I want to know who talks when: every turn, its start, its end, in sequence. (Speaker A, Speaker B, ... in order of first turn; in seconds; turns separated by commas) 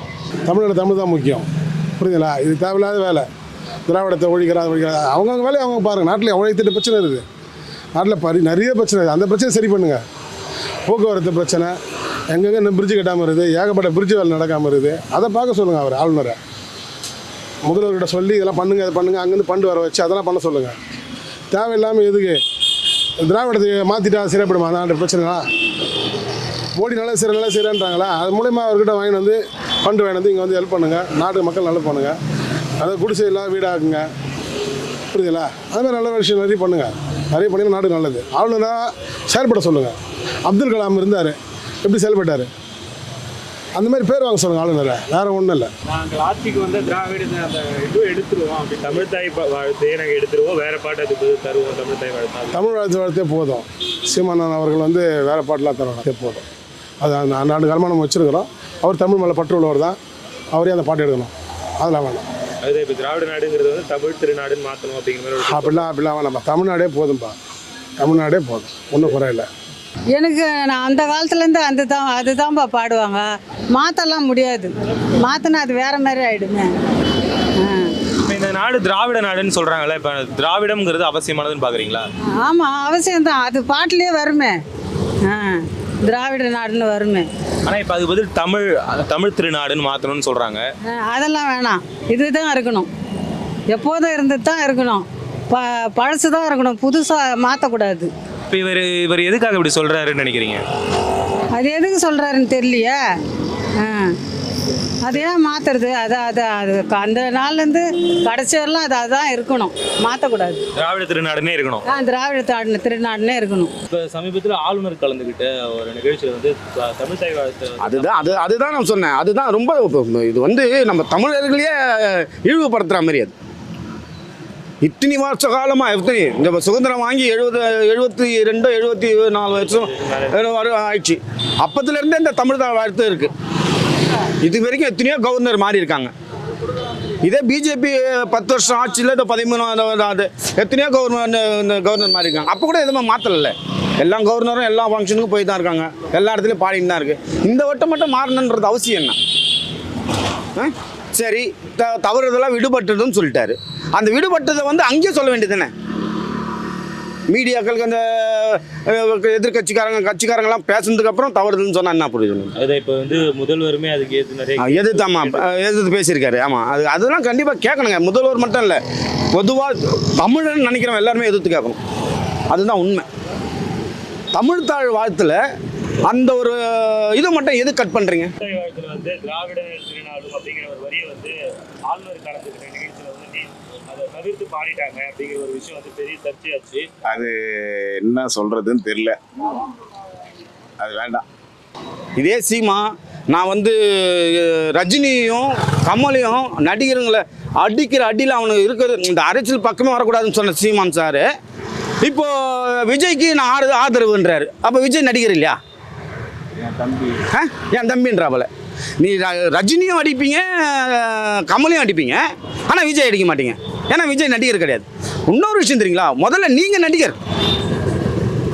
Speaker A: 0.5-1.5, Speaker A: 2.0-3.3, Speaker A: 3.9-7.2, Speaker A: 8.0-10.0, Speaker A: 10.8-11.8, Speaker A: 12.3-16.4, Speaker A: 17.6-20.8, Speaker A: 21.5-22.4, Speaker A: 23.2-25.4, Speaker A: 26.8-32.2, Speaker A: 32.8-34.1, Speaker A: 35.1-42.5, Speaker A: 43.8-45.7, Speaker B: 45.9-52.6, Speaker A: 52.5-56.4, Speaker A: 57.0-60.0, Speaker A: 60.5-62.2, Speaker B: 62.6-65.8, Speaker A: 65.5-67.4, Speaker A: 68.0-69.5, Speaker C: 70.1-76.7, Speaker C: 77.6-78.0, Speaker B: 78.1-82.1, Speaker C: 82.4-84.6, Speaker C: 85.2-87.3, Speaker B: 87.6-90.6, Speaker C: 90.8-92.9, Speaker C: 93.7-98.1, Speaker B: 98.5-100.6, Speaker C: 101.5-103.2, Speaker C: 103.8-104.2, Speaker C: 105.0-110.7, Speaker B: 110.8-111.8, Speaker C: 111.8-113.7, Speaker B: 113.9-118.1, Speaker D: 117.8-123.3, Speaker D: 124.8-129.8, Speaker B: 129.6-130.4, Speaker D: 130.4-133.3, Speaker D: 134.4-136.1, Speaker D: 137.2-149.2, Speaker D: 150.6-155.7, Speaker D: 157.3-162.5, Speaker B: 162.6-165.5, Speaker D: 164.7-168.8, Speaker D: 169.3-171.8, Speaker D: 172.5-173.1, Speaker D: 174.3-175.4, Speaker D: 176.1-178.3, Speaker B: 178.4-186.9, Speaker E: 187.0-189.2, Speaker E: 190.8-191.2, Speaker D: 192.2-201.2, Speaker D: 202.0-205.6, Speaker D: 207.3-208.5, Speaker D: 209.0-217.2